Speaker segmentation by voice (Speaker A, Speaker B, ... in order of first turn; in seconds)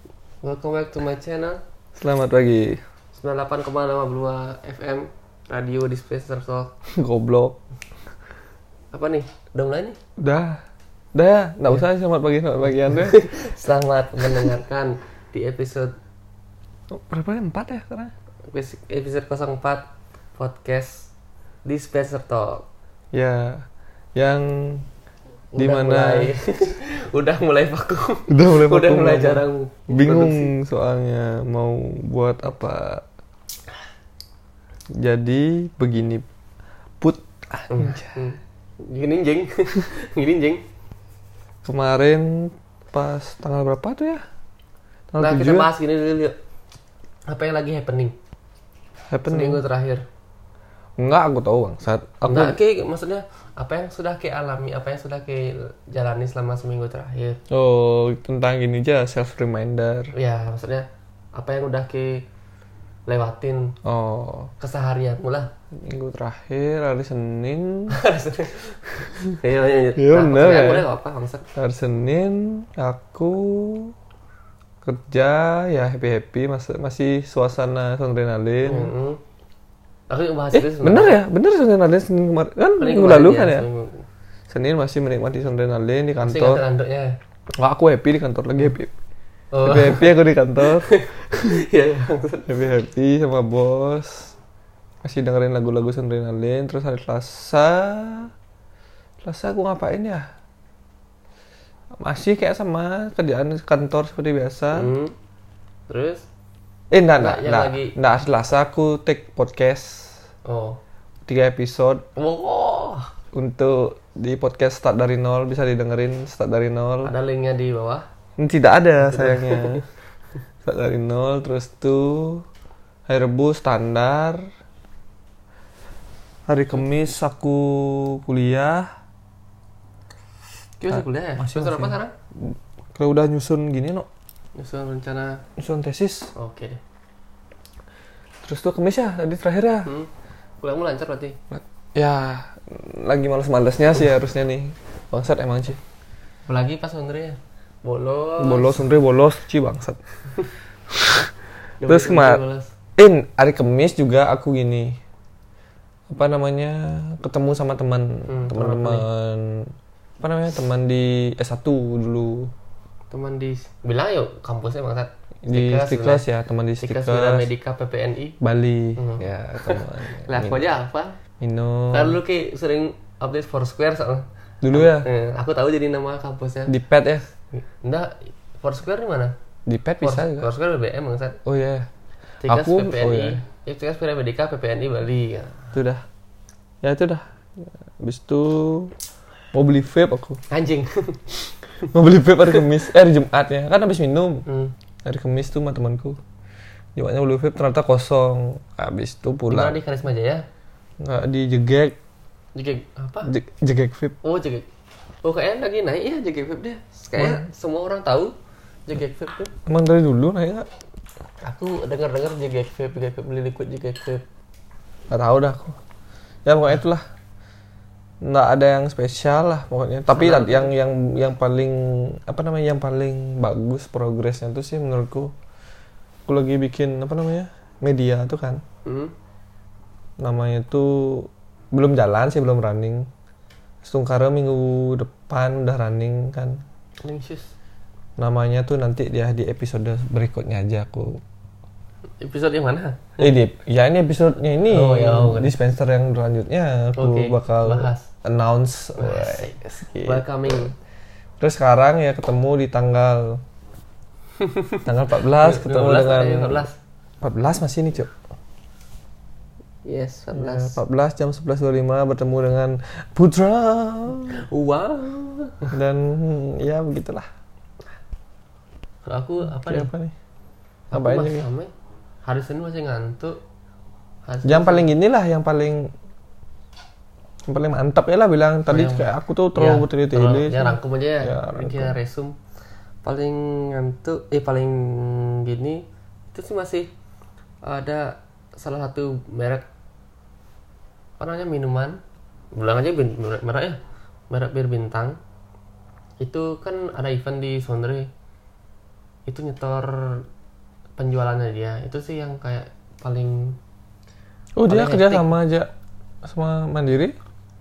Speaker A: 0.4-1.6, 3.1-6.7, 8.9-10.0, 12.8-15.9, 18.5-19.9, 20.4-21.1, 21.7-22.7, 25.5-30.5, 37.7-40.6, 45.2-46.4, 47.3-48.2, 49.3-50.1, 52.3-57.4, 60.1-62.3, 63.1-63.8, 64.6-65.5, 67.9-71.5, 78.7-79.2, 80.1-81.2, 82.8-84.0, 86.2-87.2, 89.5-92.5, 104.7-105.1, 105.9-106.2, 107.2-108.0, 110.5-110.8, 112.2-113.1, 117.0-118.1, 119.0-119.8, 130.8-132.1, 134.6-135.4, 136.4-136.8, 139.8-140.1, 140.6-141.4, 146.5-148.9, 151.8-152.7, 158.3-159.1, 163.1-166.2, 166.8-168.4, 169.0-171.2, 171.9-176.7, 177.5-179.3, 180.0-181.4, 182.4-185.7, 190.5-191.2, 194.5-194.7, 199.5-200.4, 202.6-203.3, 204.2-204.7, 205.2-208.3, 208.9-209.5, 211.4-214.2, 220.1-220.7, 228.8-229.1, 237.0-237.5, 242.2-243.2, 244.7-245.5, 247.0-248.1, 249.0-250.7, 254.4-256.8, 259.9-260.8, 264.3-265.7, 269.0-269.9, 270.9-271.7, 272.2-273.4, 274.3-274.9, 278.7-282.4, 283.0-286.9, 287.6-289.7, 291.2-292.0, 292.6-293.8, 294.3-295.2, 296.2-298.1, 299.3-300.2, 301.0-303.6, 304.7-305.4
Speaker B: 2.0-2.8, 7.0-7.6, 10.2-10.6, 11.1-13.3, 16.9-18.1, 23.1-23.6, 24.2-24.9, 25.6-26.3, 28.3-33.0, 34.9-36.3, 37.0-38.3, 41.6-44.2, 45.1-45.7, 49.1-49.6, 51.0-52.6, 57.5-60.1, 63.8-64.5, 65.7-68.0, 70.0-70.9, 71.5-73.9, 74.8-78.9, 80.5-83.7, 84.5-86.6, 87.5-88.9, 89.6-91.5, 92.5-94.3, 95.0-98.3, 99.2-100.3, 102.0-104.9, 106.9-110.2, 111.3-112.0, 113.3-117.1, 118.4-119.8, 120.6-122.5, 123.1-124.4, 126.5-128.9, 130.9-134.1, 135.6-136.3, 138.4-139.9, 141.5-145.8, 148.4-150.0, 150.9-151.3, 151.8-152.4, 153.0-155.0, 156.1-162.5, 165.4-167.5, 168.4-170.6, 171.4-172.2, 174.6-175.1, 176.7-177.3, 179.7-180.5, 181.4-181.9, 182.5-183.4, 185.7-186.0, 186.8-188.9, 189.5-190.4, 191.9-194.5, 195.1-196.2, 197.0-199.8, 201.0-202.0, 203.2-204.2, 207.2-207.4, 209.7-210.7, 215.1-215.8, 216.4-217.0, 218.2-225.3, 226.3-228.6, 230.2-233.1, 233.8-236.6, 238.2-241.2, 243.2-250.7, 251.4-253.4, 254.8-256.7, 257.2-258.1, 260.4-264.4, 265.7-267.3, 269.5-270.1, 270.9-271.4, 274.4-275.9, 277.5-281.9, 304.6-305.7, 306.2-307.2